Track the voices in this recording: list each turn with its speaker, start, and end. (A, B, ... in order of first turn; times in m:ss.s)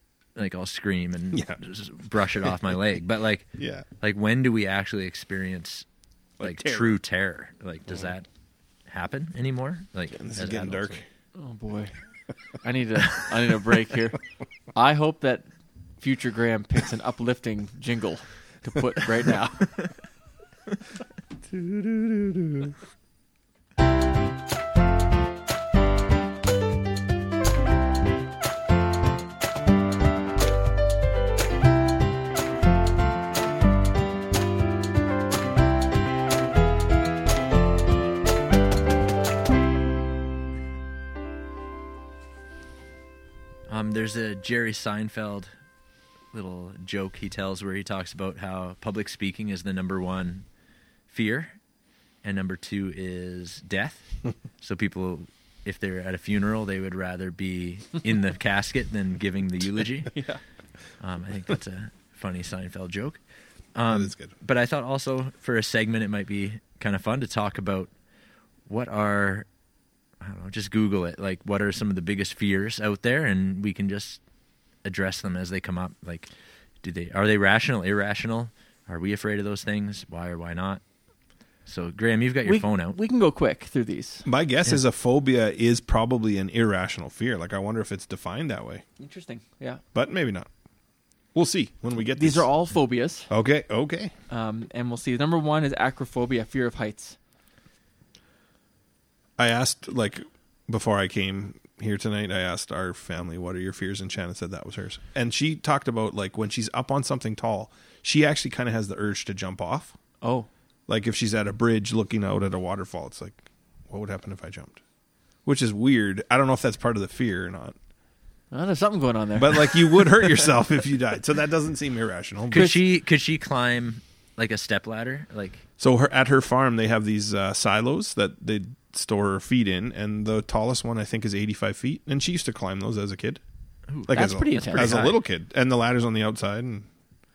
0:00.4-0:05.8 A
0:01.3-0:01.6 B
0:03.6-0:03.8 B
0:06.4-0:07.0 B
0:06.4-0:08.3 A
0:08.9-0:11.0 A
0:10.1-0:11.0 B
0:11.4-0:11.9 C
0:12.6-0:14.2 C
0:14.7-0:15.5 C
0:16.0-0:19.7 C
0:21.5-0:22.6 B
0:43.7-0:45.5 A
0:46.3-0:50.4 A
0:51.1-0:51.5 A
0:52.2-1:00.2 A
1:00.1-1:00.4 C
1:01.0-1:03.2 A
1:03.7-1:07.9 A
1:03.9-1:04.3 B
1:08.7-1:09.4 A
1:10.2-1:14.2 A
1:14.8-1:16.3 A
1:16.8-1:20.8 A
1:21.6-1:23.0 A
1:22.4-1:24.2 C
1:24.2-1:28.8 B
1:29.0-1:29.8 C
1:29.9-1:30.5 B
1:31.3-1:32.5 B
1:32.2-1:33.3 C
1:33.3-1:34.1 B
1:34.3-1:37.2 C
1:39.4-1:50.0 B
1:50.2-1:50.5 C
1:50.9-1:54.8 B
1:55.4-1:57.8 B
1:58.5-2:00.4 C
1:59.4-2:02.7 B
2:02.5-2:05.6 A
2:02.5-2:02.8 C
2:05.8-2:13.4 B
2:13.9-2:15.2 A
2:14.0-2:16.9 B
2:14.1-2:15.0 C